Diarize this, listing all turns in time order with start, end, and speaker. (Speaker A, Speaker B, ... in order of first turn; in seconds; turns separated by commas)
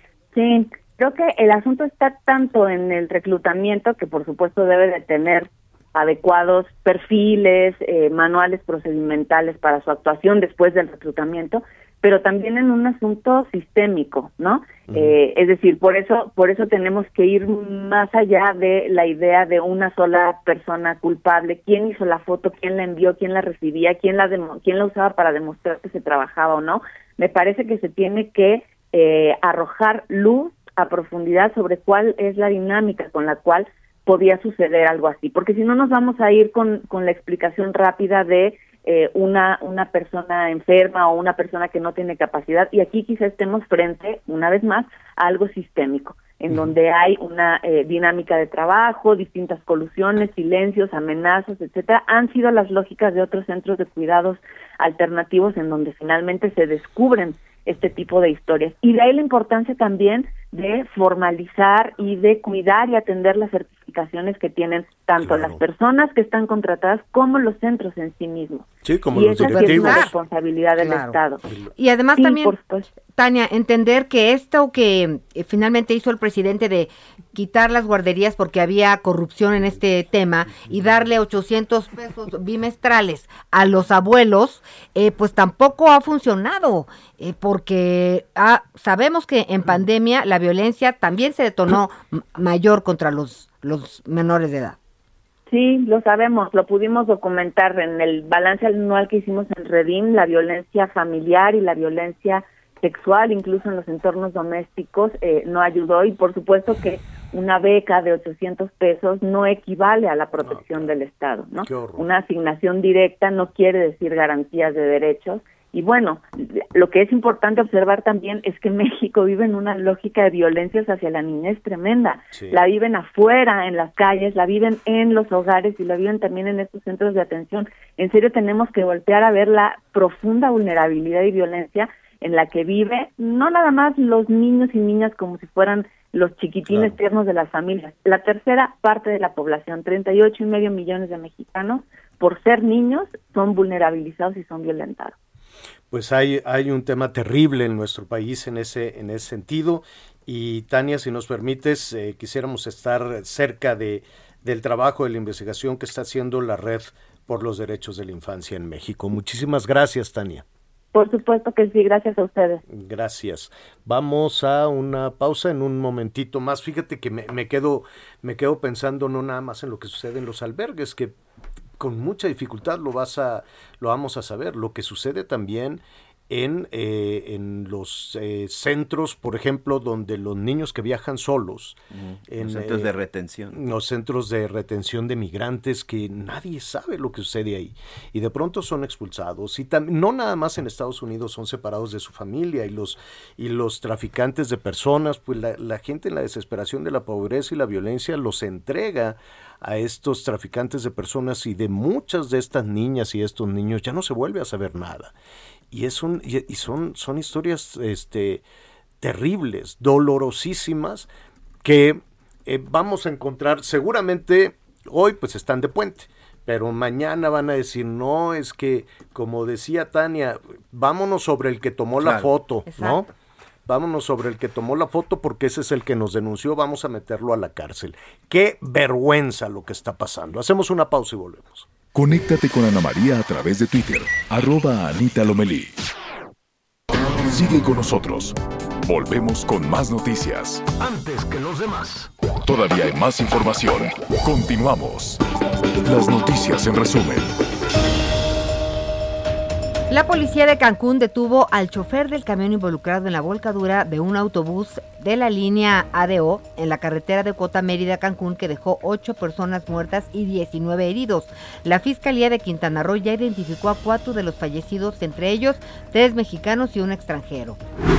Speaker A: 0.3-71.4, Speaker B: 14.9-15.2, Speaker B: 65.2-65.6, Speaker B: 68.8-70.1, Speaker C: 69.4-70.1, Speaker C: 70.8-71.2, Speaker C: 71.8-72.6, Speaker A: 72.2-72.9, Speaker C: 73.1-94.8, Speaker A: 95.5-145.1, Speaker B: 110.4-110.9, Speaker B: 111.6-112.1, Speaker B: 122.3-122.6, Speaker B: 136.7-137.0, Speaker B: 145.9-160.4, Speaker A: 160.9-162.6, Speaker B: 162.7-171.2, Speaker B: 171.8-181.8, Speaker D: 181.9-183.6, Speaker B: 182.3-182.9, Speaker B: 183.5-205.1, Speaker B: 205.7-208.4, Speaker B: 209.0-211.1, Speaker B: 211.6-223.1, Speaker D: 222.0-222.3, Speaker C: 222.7-223.1, Speaker B: 223.7-231.7, Speaker E: 231.9-235.8, Speaker E: 237.3-240.7, Speaker B: 240.8-242.0, Speaker E: 242.4-245.2, Speaker E: 245.8-247.3, Speaker C: 249.9-267.6